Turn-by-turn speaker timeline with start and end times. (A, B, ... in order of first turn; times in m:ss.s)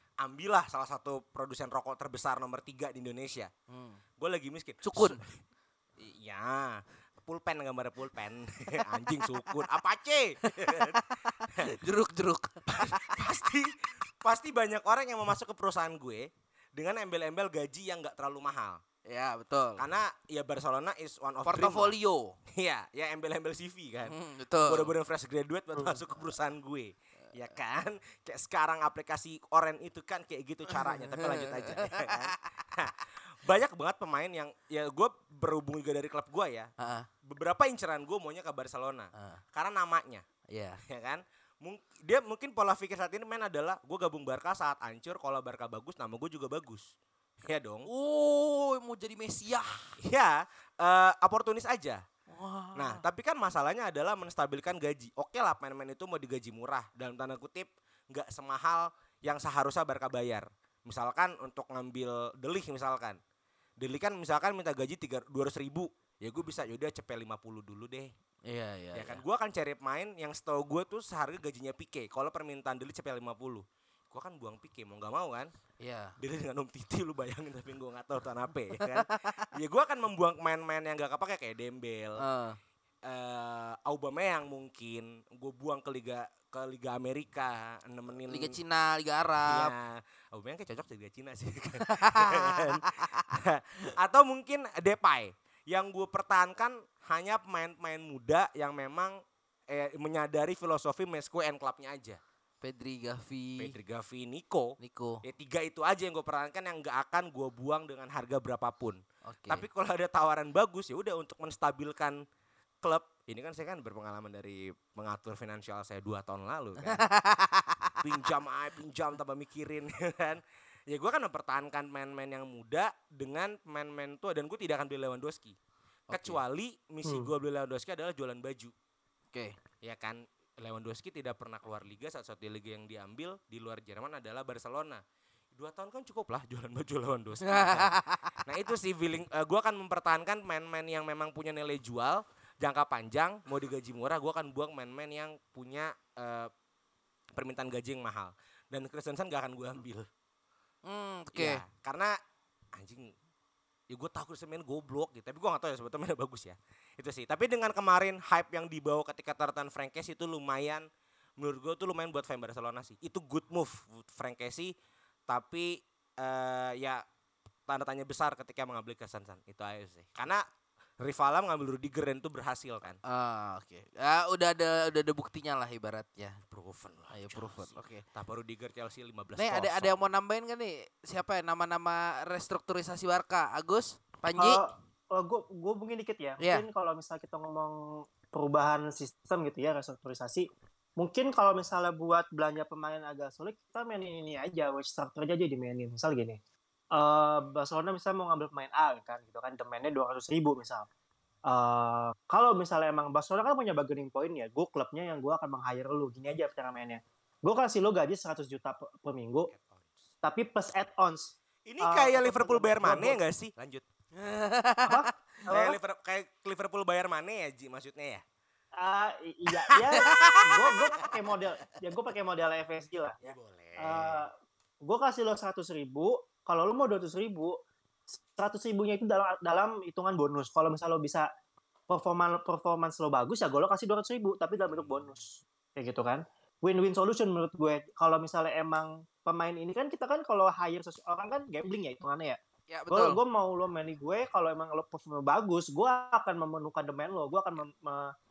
0:00.2-0:03.5 A
0:03.7-0:04.0 B
0:04.2-0:05.3 A
0:04.8-0:05.2 B
0:06.0-0:11.7 A
0:09.1-0:09.6 B
0:10.5-0:13.2 B
0:12.7-0:18.8 A
0:19.1-0:19.8 B
0:19.8-0:21.9 A
0:21.4-0:22.4 B
0:22.5-0:36.7 A
0:24.1-0:24.9 B
0:31.2-0:32.3 B
0:36.8-0:37.1 B
0:37.2-0:40.2 A
0:40.5-0:40.8 B
0:40.9-0:46.9 A
0:47.4-0:47.9 A
0:47.9-0:50.0 B
0:50.0-0:52.0 A
0:52.3-0:53.0 B
0:52.8-1:03.2 A
1:03.8-1:08.1 A
1:08.5-1:09.2 B
1:09.0-1:15.5 A
1:15.8-1:16.2 B
1:16.2-1:22.2 A
1:22.2-1:22.6 B
1:23.1-1:28.5 A
1:28.3-1:29.7 B
1:29.5-1:39.2 A
1:31.9-1:32.8 B
1:39.7-1:42.2 A
1:42.6-1:43.7 B
1:43.6-1:52.2 A
1:44.8-1:45.2 B
1:49.3-1:49.7 B
1:52.8-1:57.1 A
1:56.8-1:57.9 B
1:58.0-2:05.6 A
2:06.1-2:06.4 B
2:06.1-2:08.7 A
2:09.8-2:15.0 A
2:15.5-2:17.9 A
2:17.4-2:18.4 B
2:18.4-2:26.5 A
2:27.3-2:30.1 A
2:30.9-2:31.6 B
2:31.3-2:32.1 A
2:32.8-2:33.1 A
2:33.9-2:40.8 A
2:41.4-2:44.7 A
2:45.3-2:47.0 A
2:47.7-2:50.4 A
2:51.0-2:53.0 A
2:53.1-2:56.4 B
2:56.5-3:00.0 A
2:57.1-2:58.0 B
2:59.4-3:04.6 B
3:04.4-3:16.4 C
3:06.4-3:06.6 B
3:16.9-3:20.9 C
3:21.5-3:29.5 C
3:29.5-3:30.1 A
3:30.2-3:33.2 C
3:31.7-3:33.8 A
3:34.2-3:35.1 B
3:34.9-3:35.8 C
3:35.5-3:38.2 A
3:38.8-3:47.6 C
3:39.7-3:40.0 A
3:40.0-3:40.8 B
3:41.0-3:41.2 A
3:43.2-3:44.3 A
3:48.1-3:51.3 C
3:51.9-4:02.4 C
3:54.7-3:55.0 A
4:02.7-4:03.2 B
4:02.9-4:08.1 C